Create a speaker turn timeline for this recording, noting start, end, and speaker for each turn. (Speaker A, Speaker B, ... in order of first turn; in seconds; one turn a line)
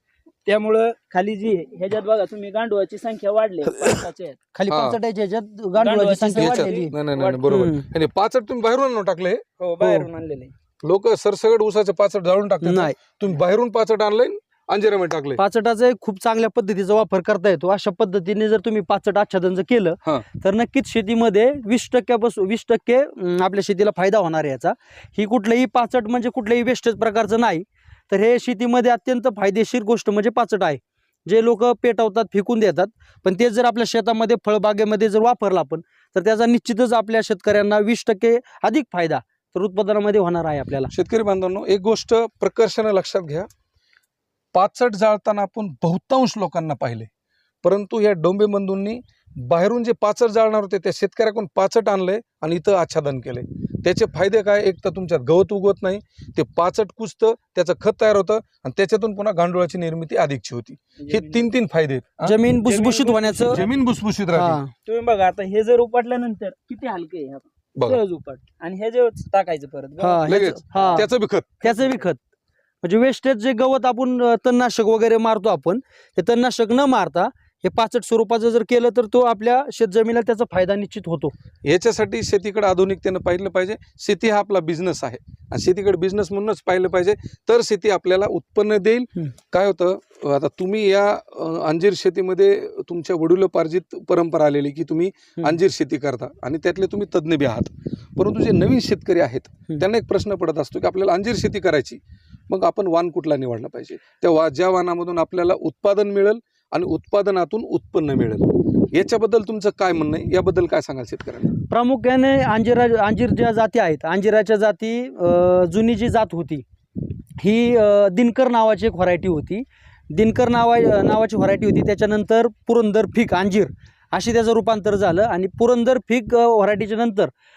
Speaker A: 0.5-4.4
Speaker B: 4.5-7.9
Speaker C: 4.7-5.0
Speaker A: 5.8-7.5
Speaker C: 6.4-9.4
Speaker A: 9.6-10.5
Speaker B: 9.8-10.1
Speaker C: 10.8-15.4
Speaker B: 12.6-13.0
Speaker B: 15.4-40.9
Speaker C: 40.9-43.5
Speaker C: 44.5-47.1
Speaker C: 47.6-62.4
Speaker A: 61.0-61.5
Speaker B: 62.2-63.6
Speaker A: 62.6-63.7
Speaker C: 63.5-64.6
Speaker B: 64.3-64.7
Speaker A: 64.8-71.0
Speaker B: 70.0-71.1
Speaker C: 70.3-71.6
Speaker B: 71.6-72.2
Speaker B: 72.8-81.3
Speaker C: 81.6-111.5
Speaker B: 111.7-116.7
Speaker B: 117.4-127.3